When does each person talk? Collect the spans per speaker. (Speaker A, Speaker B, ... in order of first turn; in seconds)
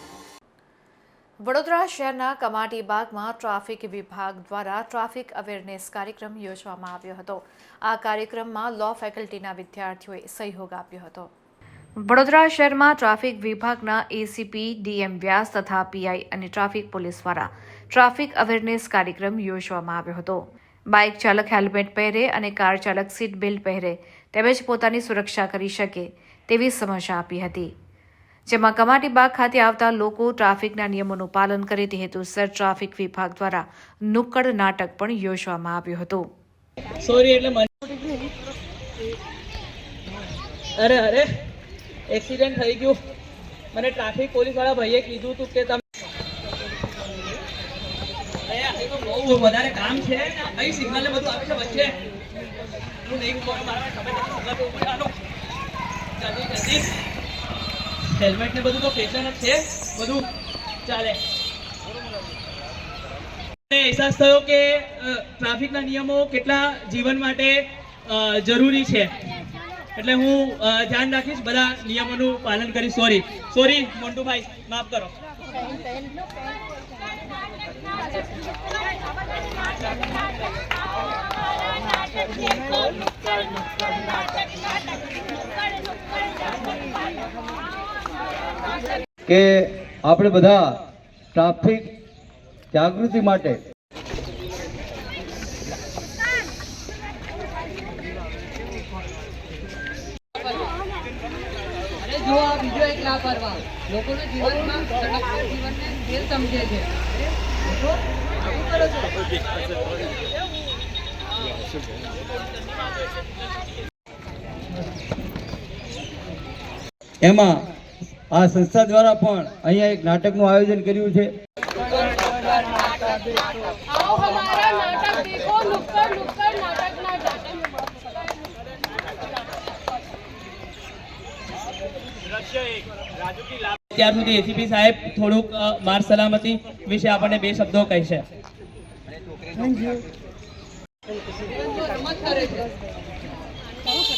Speaker A: 1.4-11.3, 12.0-27.7, 28.5-36.3
Speaker B: 37.0-37.7, 40.8-41.3, 42.1-43.0, 43.7-45.8, 48.5-52.0, 53.0-55.2, 56.2-57.0, 58.1-60.3, 60.9-61.2, 63.7-69.1, 70.0-75.1, 133.9-138.2
Speaker C: 89.3-90.8, 91.3-91.9, 92.7-93.6, 117.2-117.6, 118.3-121.3
Speaker D: 102.0-107.0, 124.3-126.5, 141.6-142.6